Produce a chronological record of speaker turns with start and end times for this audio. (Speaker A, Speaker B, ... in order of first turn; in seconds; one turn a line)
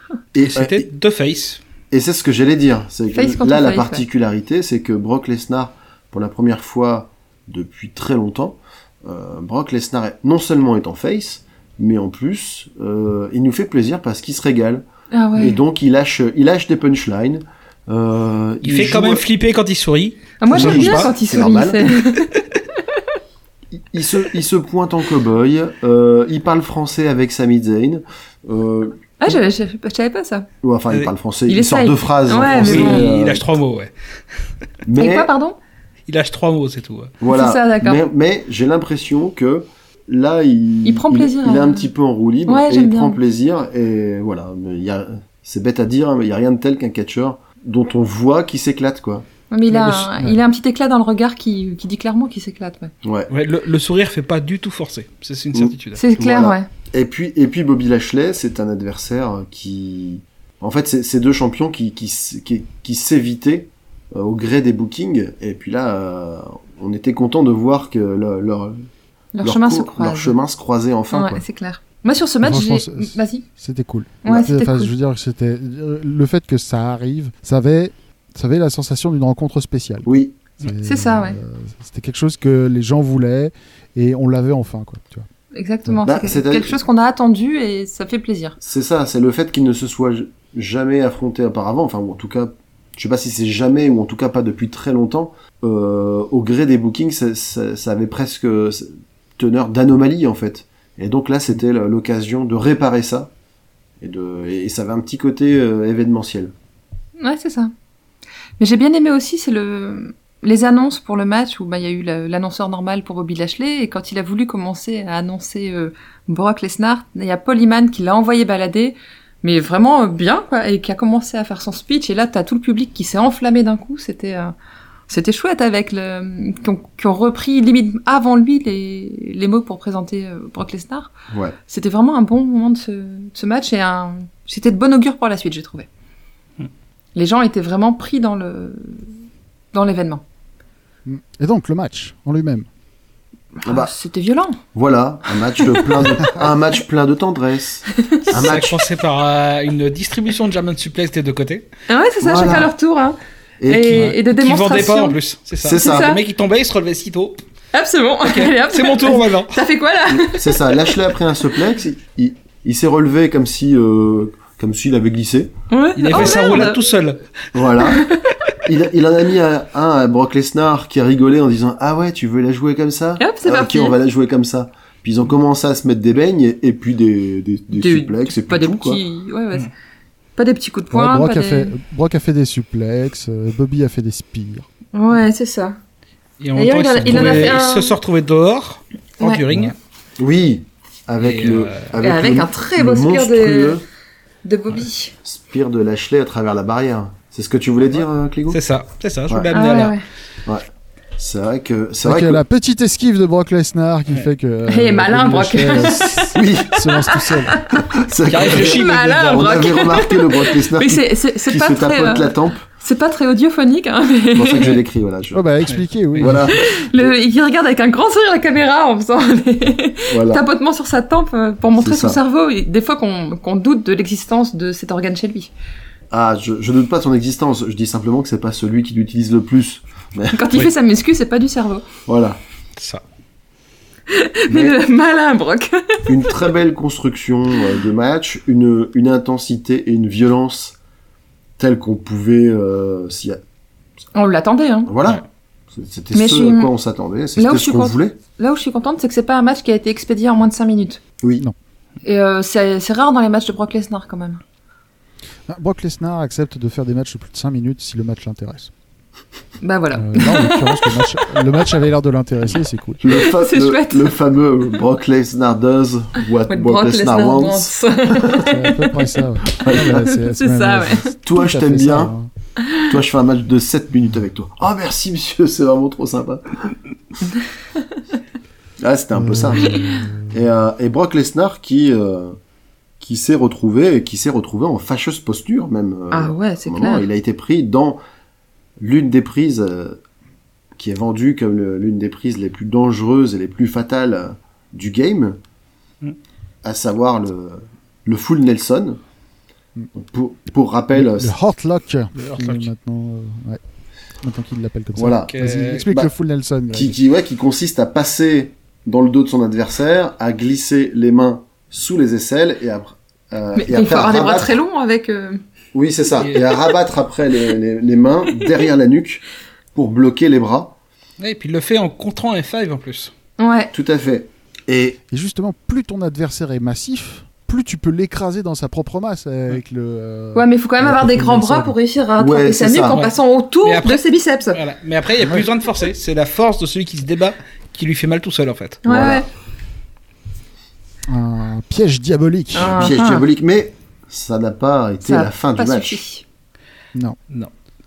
Speaker A: 0.3-0.8
Speaker B: 0.4-1.6
Speaker A: 1.9-14.8
Speaker C: 3.1-4.0
Speaker C: 15.1-15.6
Speaker A: 15.4-19.2
Speaker B: 18.6-21.1
Speaker C: 20.4-22.3
Speaker A: 20.5-21.9
Speaker A: 23.7-29.4
Speaker C: 29.2-30.5
Speaker A: 30.6-33.4
Speaker C: 31.5-33.1
Speaker B: 32.4-33.9
Speaker A: 34.8-35.3
Speaker C: 35.0-35.6
Speaker B: 36.1-37.1
Speaker A: 37.2-49.2
Speaker C: 37.3-38.0
Speaker C: 40.8-41.9
Speaker C: 42.5-43.2
Speaker C: 49.5-52.9
Speaker D: 49.7-50.4
Speaker A: 53.0-53.3
Speaker B: 53.3-56.0
Speaker A: 55.5-68.9
Speaker C: 56.0-56.7
Speaker C: 69.3-70.4
Speaker A: 69.4-71.4
Speaker C: 71.1-73.4
Speaker D: 72.4-85.3
Speaker C: 74.2-74.9
Speaker A: 80.0-80.3
Speaker C: 80.8-81.4
Speaker C: 85.5-88.6
Speaker A: 86.0-86.8
Speaker A: 88.6-103.3
Speaker A: 104.0-106.5
Speaker C: 107.2-107.7
Speaker C: 108.6-124.5
Speaker C: 125.1-131.1
Speaker A: 131.3-131.6
Speaker C: 131.7-135.9
Speaker C: 137.1-139.1
Speaker C: 139.7-140.2
Speaker D: 141.1-142.7
Speaker C: 143.6-144.6
Speaker A: 143.7-143.9
Speaker A: 144.7-148.8
Speaker C: 147.9-148.2
Speaker B: 148.3-151.7
Speaker C: 151.9-156.2
Speaker A: 152.2-152.7
Speaker A: 153.6-154.1
Speaker B: 153.9-157.4
Speaker A: 155.6-156.2
Speaker C: 157.7-161.0
Speaker B: 158.2-159.6
Speaker A: 160.1-165.5
Speaker C: 165.7-166.8
Speaker B: 166.0-167.2
Speaker A: 166.1-166.5
Speaker A: 167.5-168.1
Speaker C: 167.8-168.3
Speaker A: 168.6-179.0
Speaker C: 173.2-173.9
Speaker C: 177.7-179.7
Speaker C: 180.4-181.8
Speaker D: 180.9-184.7
Speaker C: 184.9-185.8
Speaker B: 186.4-189.8
Speaker C: 186.5-188.0
Speaker D: 187.1-187.4
Speaker C: 189.2-189.4
Speaker A: 190.2-193.8
Speaker B: 191.2-191.9
Speaker C: 192.0-193.8
Speaker C: 194.4-195.1
Speaker A: 195.2-198.6
Speaker B: 198.5-199.9
Speaker C: 199.5-200.0
Speaker A: 200.4-202.4
Speaker D: 202.0-207.6
Speaker C: 204.7-214.8
Speaker A: 206.0-206.9
Speaker A: 207.7-212.6
Speaker B: 208.2-209.8
Speaker A: 214.3-215.4
Speaker D: 215.3-216.5
Speaker B: 215.6-216.4
Speaker A: 216.2-217.1
Speaker C: 216.5-225.5
Speaker A: 220.1-220.4
Speaker A: 221.8-222.2
Speaker A: 226.1-230.6
Speaker C: 230.3-231.9
Speaker A: 232.1-232.4
Speaker B: 232.8-233.0
Speaker C: 234.1-236.2
Speaker A: 234.5-234.8
Speaker A: 236.1-240.8
Speaker A: 241.6-243.4
Speaker C: 244.1-244.9
Speaker A: 244.9-248.2
Speaker C: 246.1-246.7
Speaker C: 247.3-251.0
Speaker A: 251.2-251.4
Speaker C: 252.0-254.4
Speaker D: 255.5-258.7
Speaker C: 259.6-261.3
Speaker D: 259.9-263.1
Speaker A: 263.0-268.4
Speaker C: 263.1-264.1
Speaker C: 266.5-269.0
Speaker D: 268.2-272.3
Speaker A: 269.5-270.1
Speaker C: 269.7-271.2
Speaker A: 271.2-272.1
Speaker C: 272.6-272.9
Speaker A: 272.8-276.8
Speaker A: 278.8-282.4
Speaker D: 279.1-280.5
Speaker A: 283.0-288.0
Speaker C: 286.1-287.1
Speaker A: 288.8-290.0
Speaker A: 290.8-295.4
Speaker A: 296.6-299.0
Speaker A: 299.9-301.3
Speaker D: 300.9-303.6
Speaker B: 302.1-302.7
Speaker D: 304.2-307.0
Speaker A: 304.9-306.1
Speaker B: 305.3-305.9
Speaker A: 306.7-314.6
Speaker C: 313.5-315.4
Speaker A: 315.7-320.8
Speaker B: 316.2-316.6
Speaker B: 321.2-323.1
Speaker C: 323.4-323.7
Speaker A: 323.7-325.0
Speaker D: 325.1-331.7
Speaker C: 330.3-334.6
Speaker A: 332.2-333.0
Speaker B: 332.9-338.8
Speaker C: 338.8-339.3
Speaker A: 338.8-339.3
Speaker D: 341.1-342.9
Speaker C: 342.5-343.2
Speaker A: 342.7-346.0
Speaker C: 345.0-346.2